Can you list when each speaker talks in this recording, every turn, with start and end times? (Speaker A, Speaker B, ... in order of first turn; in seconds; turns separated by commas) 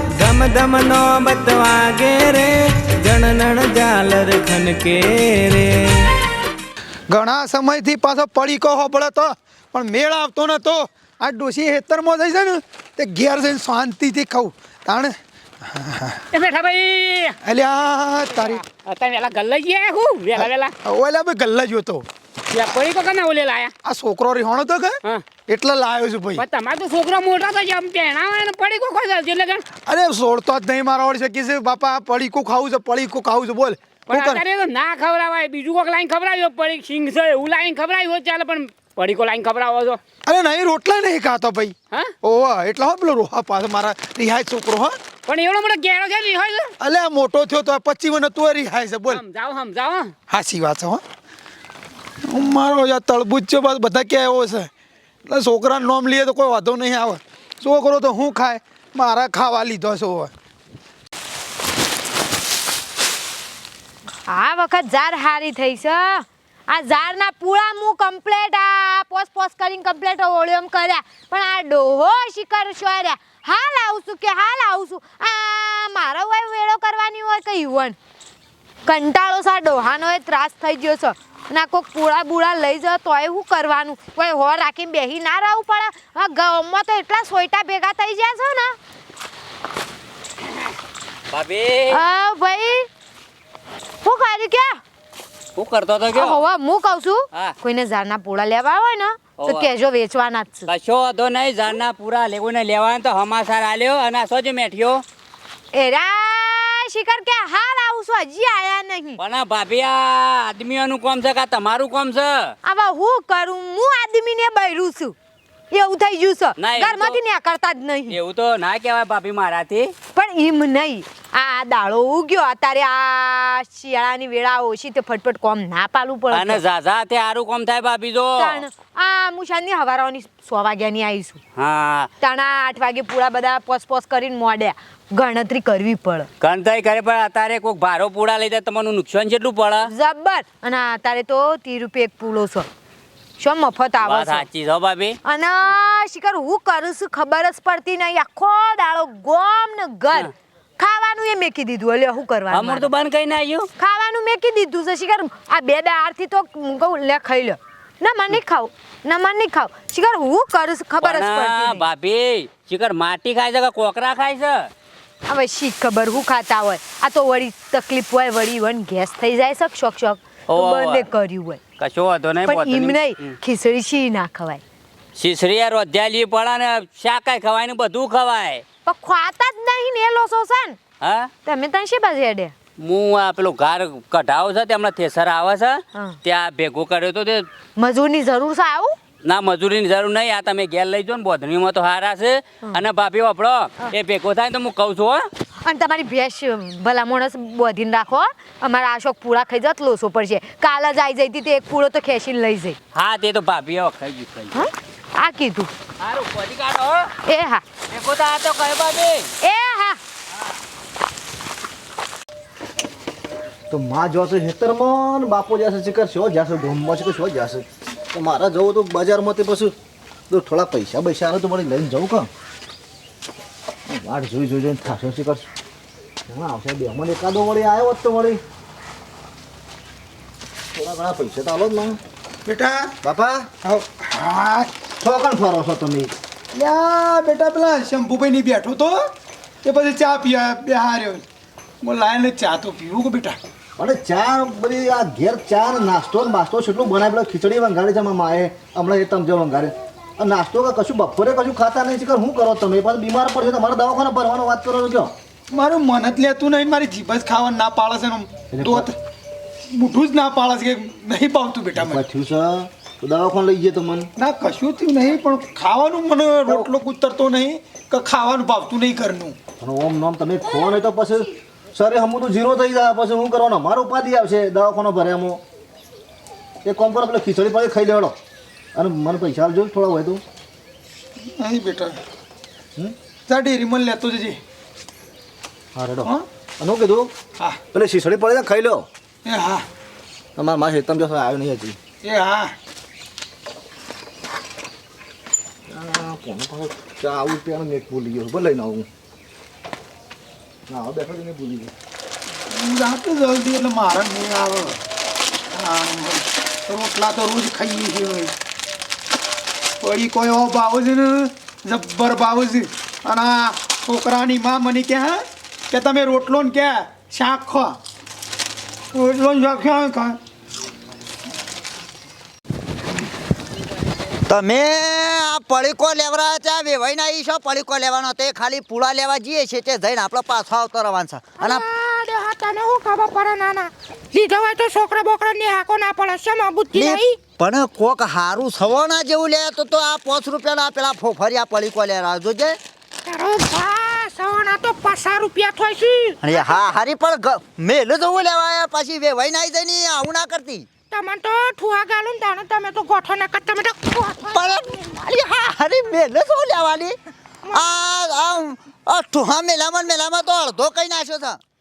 Speaker A: 0.2-2.5, Speaker A: 3.0-5.7, Speaker B: 7.1-15.2, Speaker C: 16.3-17.4, Speaker B: 17.4-18.6, Speaker C: 18.8-20.7, Speaker B: 20.4-22.1, Speaker C: 22.5-23.7, Speaker B: 23.9-26.4, Speaker C: 26.4-29.6, Speaker B: 29.9-34.4, Speaker C: 34.1-40.0, Speaker B: 40.3-41.7, Speaker B: 42.2-45.0, Speaker C: 45.2-46.7, Speaker B: 46.8-49.2, Speaker C: 49.1-50.1, Speaker B: 50.3-51.0, Speaker B: 52.2-54.7, Speaker B: 55.3-60.3, Speaker D: 64.3-78.0, Speaker D: 78.8-88.8, Speaker E: 91.3-92.0, Speaker D: 91.9-92.9, Speaker D: 94.0-94.8, Speaker E: 95.5-96.4, Speaker D: 96.1-100.7, Speaker E: 99.4-99.7, Speaker E: 100.7-105.0, Speaker D: 105.7-109.2, Speaker E: 109.2-112.5, Speaker D: 112.6-115.1, Speaker D: 115.7-118.2, Speaker E: 116.6-117.2, Speaker E: 118.1-119.9, Speaker D: 120.1-126.6, Speaker E: 126.3-128.6, Speaker D: 128.4-131.4, Speaker E: 131.6-132.1, Speaker D: 132.2-136.3, Speaker E: 136.4-139.9, Speaker D: 139.8-142.7, Speaker D: 143.4-144.4, Speaker E: 144.0-145.2, Speaker D: 145.2-152.9, Speaker E: 152.5-153.7, Speaker D: 153.8-161.8, Speaker E: 161.0-164.7, Speaker D: 165.3-171.6, Speaker E: 170.5-171.1, Speaker E: 171.8-173.3, Speaker D: 172.4-174.6, Speaker E: 175.2-178.6, Speaker D: 178.8-180.8, Speaker E: 181.0-181.3, Speaker D: 181.4-182.5, Speaker E: 182.8-187.4, Speaker D: 187.8-188.9, Speaker E: 189.2-195.2, Speaker D: 195.6-202.8, Speaker E: 202.9-204.5, Speaker D: 204.5-205.7, Speaker E: 206.0-207.1, Speaker D: 207.2-207.6, Speaker E: 207.9-209.3, Speaker D: 209.4-210.0, Speaker F: 213.7-219.7, Speaker F: 220.3-222.3, Speaker F: 223.9-225.4, Speaker F: 226.3-228.4, Speaker F: 230.7-232.0, Speaker B: 232.4-232.9, Speaker F: 233.0-233.5, Speaker B: 233.7-234.7, Speaker F: 235.0-236.1, Speaker B: 236.5-238.9, Speaker B: 239.6-241.2, Speaker B: 241.8-243.4, Speaker F: 243.8-255.1, Speaker B: 255.5-258.9, Speaker F: 258.5-258.9, Speaker B: 259.7-262.0, Speaker F: 261.8-264.1, Speaker B: 264.2-269.4, Speaker F: 269.6-275.4, Speaker F: 276.6-278.1, Speaker F: 278.7-280.2, Speaker B: 281.4-282.0, Speaker B: 283.3-284.4, Speaker F: 285.7-287.1, Speaker F: 287.7-288.9, Speaker B: 289.2-289.6, Speaker F: 290.4-291.8, Speaker B: 292.0-292.5, Speaker F: 295.7-298.9, Speaker F: 300.7-301.7, Speaker B: 302.5-304.8, Speaker B: 305.5-308.3, Speaker B: 309.8-317.8, Speaker B: 318.9-320.2, Speaker G: 324.3-331.6, Speaker H: 331.4-337.2, Speaker G: 336.7-342.6, Speaker H: 343.0-346.6, Speaker G: 346.2-350.6, Speaker H: 350.9-354.5, Speaker G: 354.2-357.0, Speaker G: 357.5-361.4